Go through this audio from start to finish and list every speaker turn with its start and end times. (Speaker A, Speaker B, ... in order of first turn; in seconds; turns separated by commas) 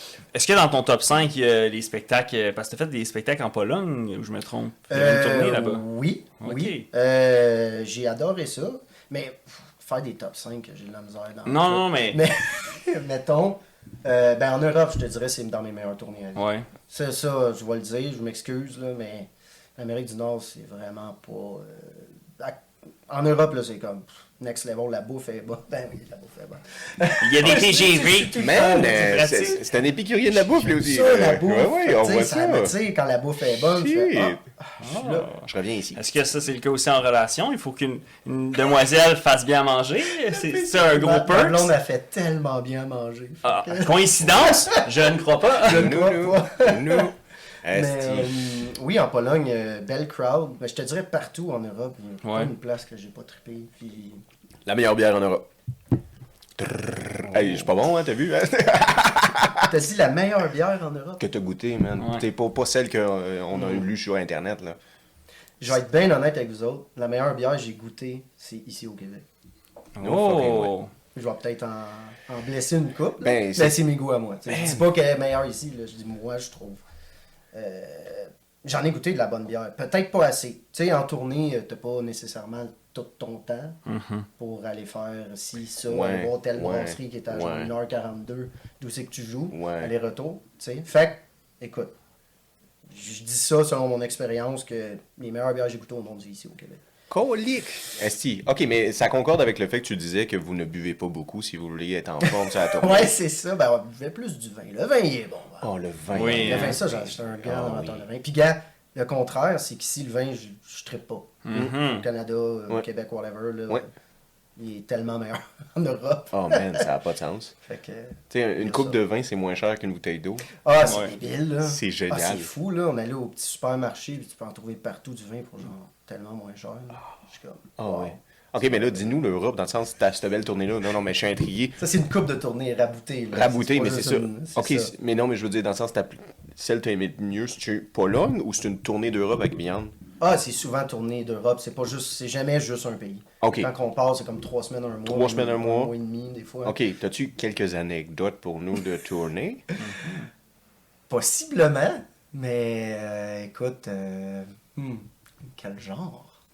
Speaker A: 0.3-5.8, Speaker B: 4.9-29.2, Speaker A: 6.4-6.9, Speaker A: 11.5-12.2, Speaker A: 16.4-16.7, Speaker A: 27.2-29.6, Speaker C: 28.3-32.7, Speaker B: 30.6-35.4, Speaker C: 33.6-34.4, Speaker A: 34.8-41.7, Speaker C: 35.5-36.0, Speaker B: 40.3-44.9, Speaker A: 43.4-45.9, Speaker B: 45.5-47.1, Speaker C: 45.6-48.6, Speaker B: 47.7-54.2, Speaker A: 52.2-52.5, Speaker C: 54.7-55.5, Speaker C: 56.6-59.7, Speaker B: 59.6-61.3, Speaker C: 61.2-64.8, Speaker A: 62.0-62.2, Speaker B: 65.6-69.3, Speaker A: 70.0-70.9, Speaker C: 70.0-70.7, Speaker B: 71.1-76.8, Speaker C: 73.2-73.8, Speaker C: 74.5-74.8, Speaker B: 77.5-83.8, Speaker A: 83.9-84.3, Speaker B: 84.4-91.9, Speaker C: 85.9-87.7, Speaker C: 89.5-89.9, Speaker B: 92.9-96.8, Speaker C: 97.1-103.1, Speaker B: 102.2-105.7, Speaker C: 105.6-108.0, Speaker A: 106.1-106.8, Speaker B: 106.3-113.9, Speaker A: 111.5-112.1, Speaker B: 114.6-116.9, Speaker C: 116.3-117.5, Speaker B: 117.7-119.0, Speaker C: 118.3-120.5, Speaker B: 120.6-128.2, Speaker A: 120.8-121.1, Speaker C: 121.7-122.5, Speaker C: 127.8-131.8, Speaker B: 131.8-134.9, Speaker C: 133.3-139.9, Speaker B: 140.2-146.8, Speaker C: 143.4-143.7, Speaker C: 145.1-145.9, Speaker C: 146.7-149.7, Speaker A: 149.8-150.1, Speaker B: 149.9-150.2, Speaker B: 151.1-156.4